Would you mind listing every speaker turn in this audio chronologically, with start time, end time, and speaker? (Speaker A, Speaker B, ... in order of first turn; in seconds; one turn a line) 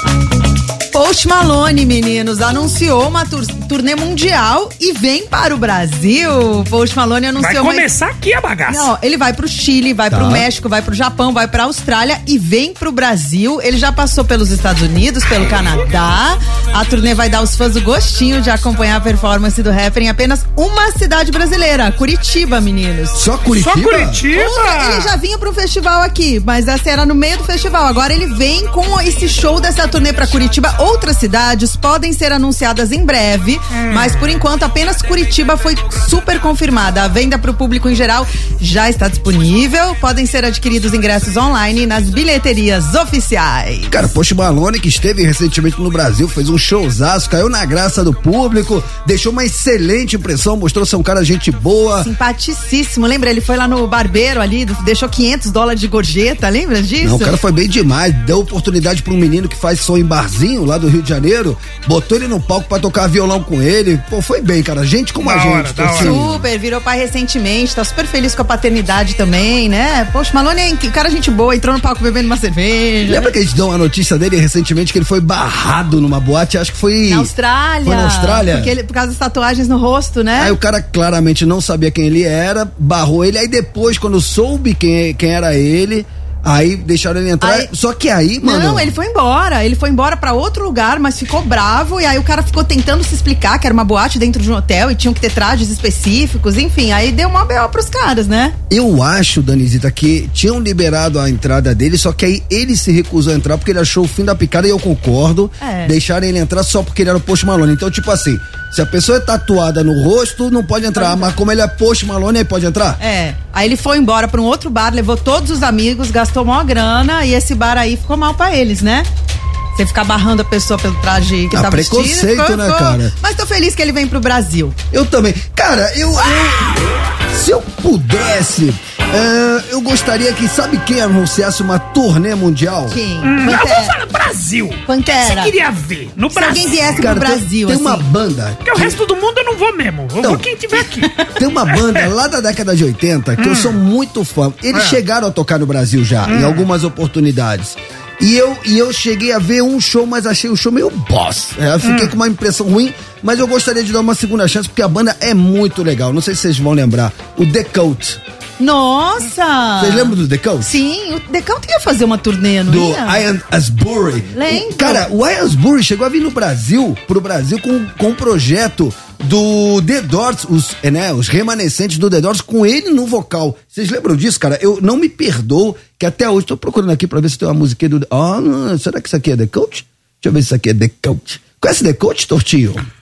Speaker A: 0.9-7.8
Speaker B: 7.4-8.9
Speaker A: 8.7-23.2
Speaker C: 10.1-10.4
Speaker C: 23.1-24.2
Speaker B: 23.5-25.1
Speaker A: 24.3-44.0
Speaker B: 33.7-34.4
Speaker C: 43.9-52.1
Speaker A: 52.0-57.4
Speaker C: 57.0-66.5
Speaker B: 65.2-66.2
Speaker A: 66.0-73.3
Speaker C: 73.0-77.3
Speaker A: 77.1-80.6
Speaker C: 77.8-78.7
Speaker C: 80.3-88.9
Speaker A: 87.4-87.7
Speaker A: 88.4-98.5
Speaker C: 98.7-113.0
Speaker A: 105.6-105.9
Speaker A: 110.9-111.3
Speaker A: 113.0-119.1
Speaker A: 119.7-124.8
Speaker C: 121.5-123.1
Speaker C: 124.9-133.0
Speaker A: 132.9-133.9
Speaker B: 133.2-136.8
Speaker A: 134.8-135.5
Speaker A: 136.3-138.0
Speaker C: 136.9-139.0
Speaker B: 138.7-141.1
Speaker C: 141.4-158.2
Speaker B: 141.7-142.1
Speaker B: 143.4-143.8
Speaker B: 144.7-145.0
Speaker B: 146.2-146.7
Speaker B: 151.8-152.2
Speaker A: 158.6-163.2
Speaker C: 159.8-160.8
Speaker C: 162.7-182.9
Speaker A: 164.3-165.1